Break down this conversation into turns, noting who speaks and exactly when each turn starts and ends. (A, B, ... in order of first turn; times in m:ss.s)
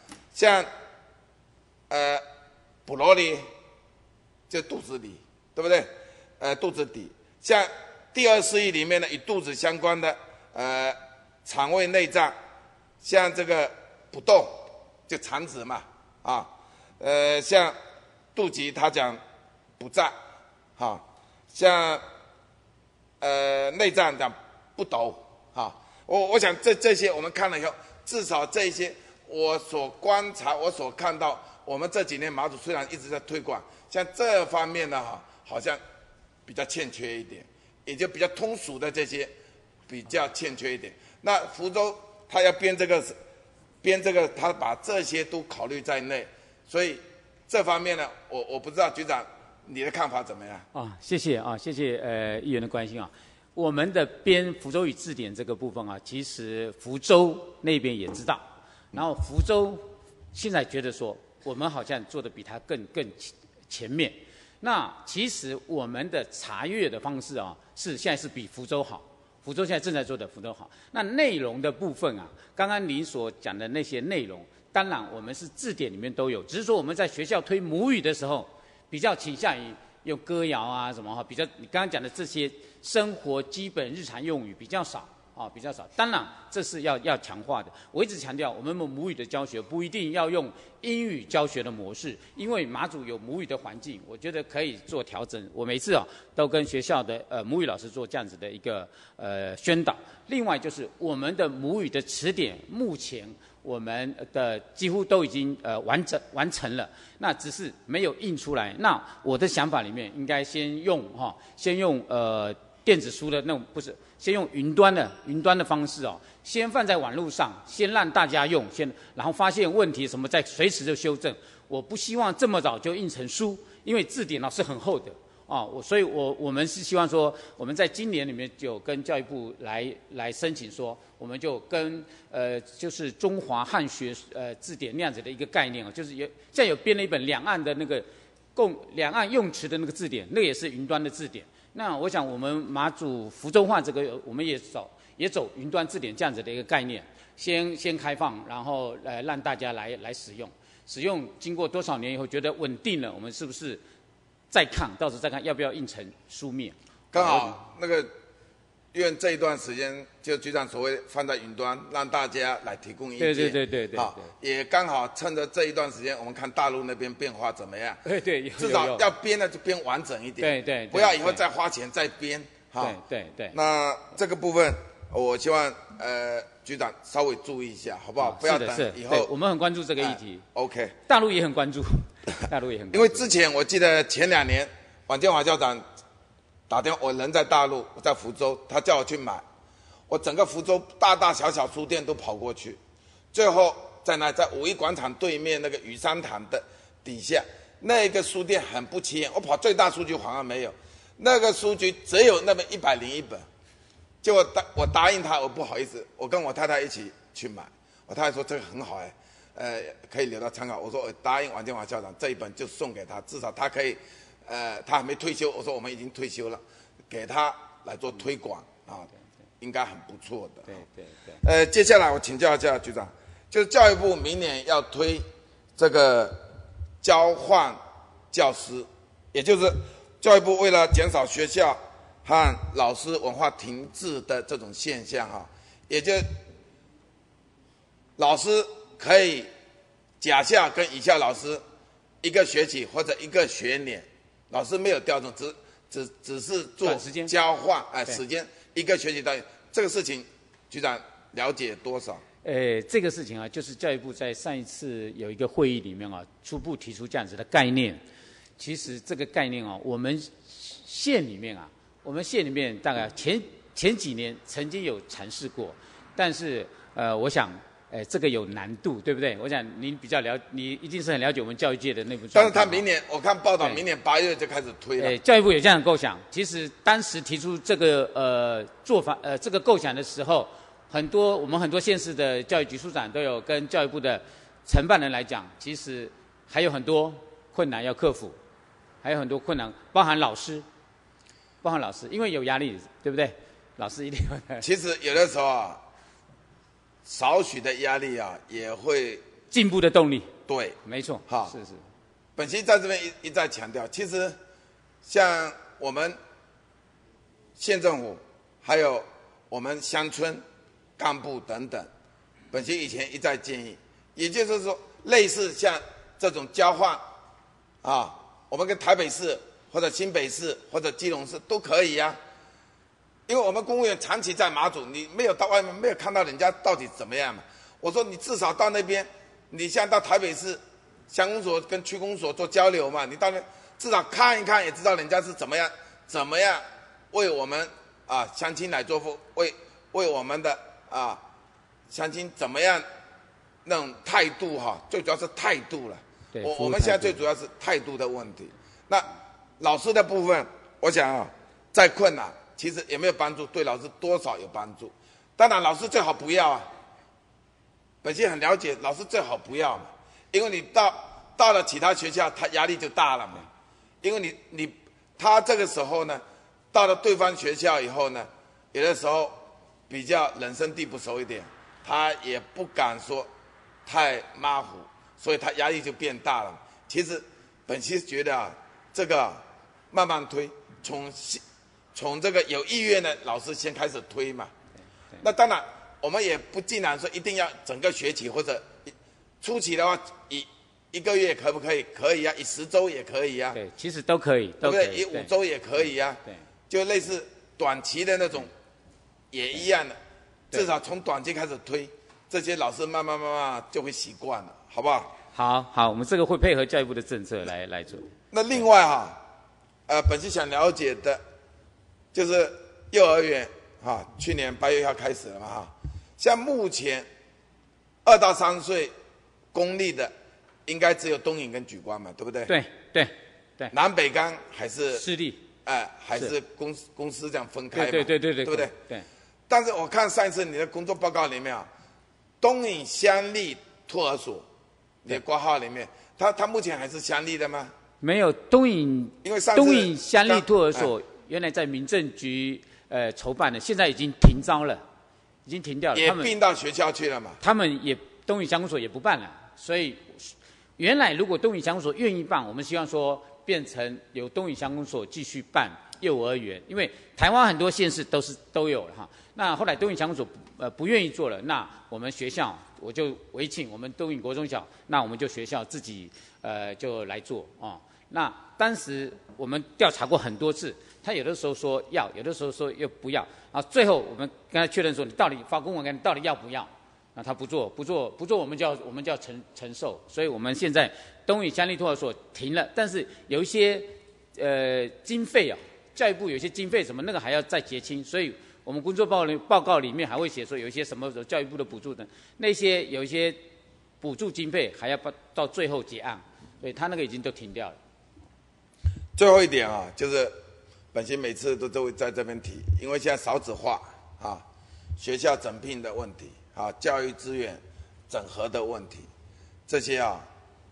0:00.3-0:00.7 A
0:01.9-0:02.2 A
0:02.8-0:03.4 A
0:04.5-0:12.4 A
0:13.0-0:17.8 A
0:18.3-0:19.2 A
0:19.8-0:20.2 A
0:20.8-0:22.0 A
0:23.2-0:35.8 A
0:36.4-0:39.3 A
0:39.9-0:43.2 A
0:43.8-0:50.6 A
0:50.7-2:33.8 B
2:34.5-2:37.6 B
2:37.1-2:38.1 A
2:38.9-2:48.0 A
2:43.2-2:44.3 B
2:48.0-2:49.1 B
2:48.6-2:53.0 A
2:50.4-2:51.4 B
2:52.8-2:53.6 B
2:53.5-2:59.3 A
2:58.2-3:00.4 B
3:00.0-3:00.9 A
3:01.1-3:03.2 B
3:02.9-3:05.8 A
3:06.7-3:09.4 A
3:10.1-3:12.8 A
3:13.3-3:23.5 A
3:24.2-3:39.1 A
3:39.6-3:40.8 A
3:40.7-3:41.4 B
3:41.4-3:46.5 A
3:47.0-3:56.4 A
3:58.2-3:59.5 A
4:00.2-4:01.6 A
4:02.2-4:12.2 A
4:06.8-4:07.3 B
4:12.4-4:18.0 B
4:18.6-4:32.8 B
4:32.3-4:35.2 A
4:35.0-4:48.4 B
4:49.0-4:50.6 B
4:51.6-4:54.6 B
4:54.6-4:55.8 A
4:57.0-4:59.2 A
4:59.5-5:00.3 B
5:00.5-5:01.5 A
5:00.8-5:01.8 B
5:02.4-5:04.4 A
5:05.0-5:06.2 A
5:07.6-5:10.4 A
5:11.0-5:11.9 A
5:12.5-5:17.1 A
5:17.8-5:22.2 A
5:23.3-5:41.2 A
5:41.9-5:42.8 A
5:43.6-5:49.1 A
5:46.3-5:47.2 B
5:49.6-5:56.7 A
5:58.0-6:03.5 A
6:04.0-6:13.3 A
6:13.8-6:21.4 A
6:21.9-6:24.5 A
6:25.2-6:33.6 A
6:33.5-6:35.3 B
6:34.6-6:38.5 A
6:39.3-6:40.0 A
6:40.5-6:45.1 A
6:45.3-6:48.1 B
6:48.3-6:49.2 A
6:49.9-6:51.2 A
6:52.1-6:57.1 A
6:58.0-6:58.9 A
6:59.5-7:00.1 A
7:00.6-7:02.5 A
7:02.5-7:03.7 B
7:03.7-7:05.0 A
7:04.9-7:05.4 B
7:05.6-7:08.7 A
7:07.7-7:09.0 B
7:09.5-7:11.7 A
7:12.4-7:14.4 A
7:15.0-7:17.7 A
7:18.0-7:24.8 B
7:19.2-7:20.9 A
7:25.4-7:26.3 B
7:25.9-7:27.4 A
7:27.4-8:13.4 B
8:14.0-8:17.8 B
8:19.2-8:20.4 A
8:20.9-8:24.4 A
8:25.0-8:29.1 A
8:29.7-8:30.3 A